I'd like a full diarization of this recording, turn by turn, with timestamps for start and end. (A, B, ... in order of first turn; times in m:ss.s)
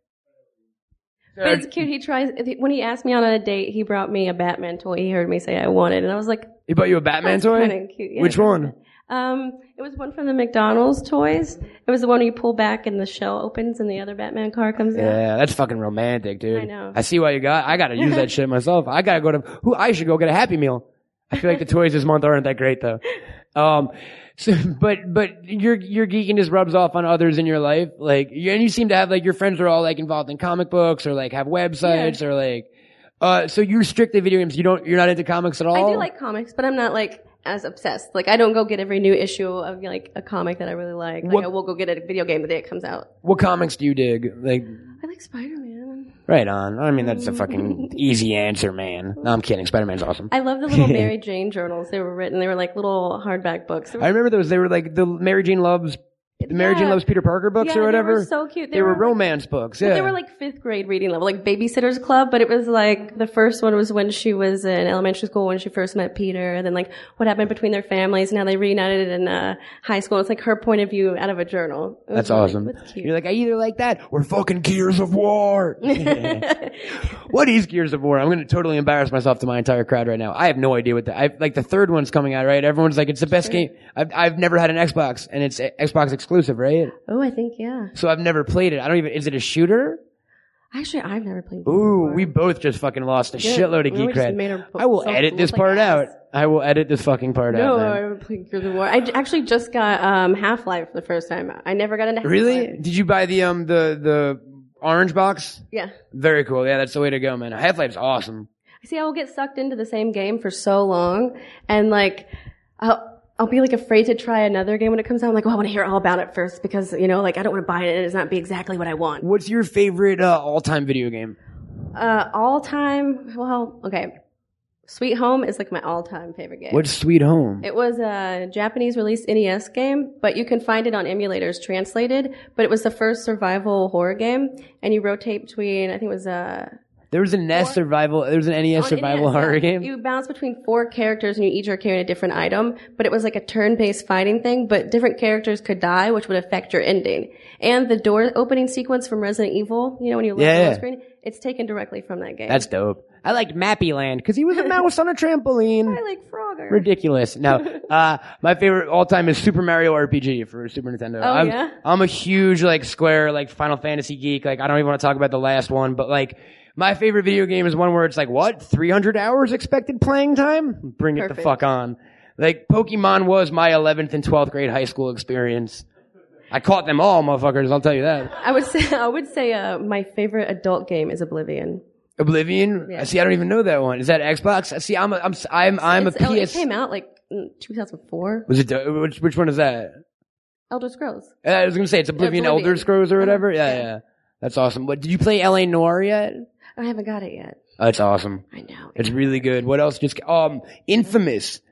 0:01.4-0:01.7 A
0:01.4-0:06.5 B
0:06.7-0:08.7 A
0:07.2-0:15.2 B
0:15.0-0:23.0 A
0:16.5-0:17.0 B
0:18.0-0:18.3 B
0:23.6-0:32.7 A
0:31.8-0:32.2 B
0:33.2-0:36.1 A
0:35.7-0:43.1 B
0:43.2-0:44.8 A
0:45.0-0:46.2 B
0:46.3-0:51.1 A
0:47.0-0:47.9 B
0:50.3-0:54.1 B
0:54.0-1:00.1 A
0:56.4-0:57.0 B
0:57.6-0:59.2 B
0:59.8-1:13.1 B
1:12.1-1:26.9 A
1:15.9-1:16.8 B
1:27.1-1:27.9 B
1:28.0-1:30.0 A
1:30.7-1:32.3 B
1:31.7-1:38.0 A
1:33.4-1:36.1 B
1:37.5-1:42.7 B
1:42.2-1:48.5 A
1:48.8-1:59.2 B
1:59.2-2:01.4 A
2:01.9-2:04.1 B
2:04.9-2:06.8 B
2:06.7-2:07.7 A
2:07.6-2:16.7 B
2:17.1-2:19.9 A
2:18.8-2:32.6 B
2:30.4-2:30.8 A
2:32.5-2:36.0 A
2:35.9-2:36.9 B
2:36.7-2:55.9 A
2:37.5-2:37.8 B
2:41.2-2:41.8 B
2:51.2-2:51.6 B
2:56.5-2:58.3 A
2:58.4-3:01.8 B
3:02.2-3:06.6 A
3:05.8-3:08.5 B
3:08.5-3:10.0 A
3:10.7-3:11.3 B
3:11.4-3:16.5 A
3:12.2-3:13.8 B
3:16.8-3:17.6 B
3:17.8-3:18.4 A
3:18.5-3:19.1 B
3:19.0-3:21.6 A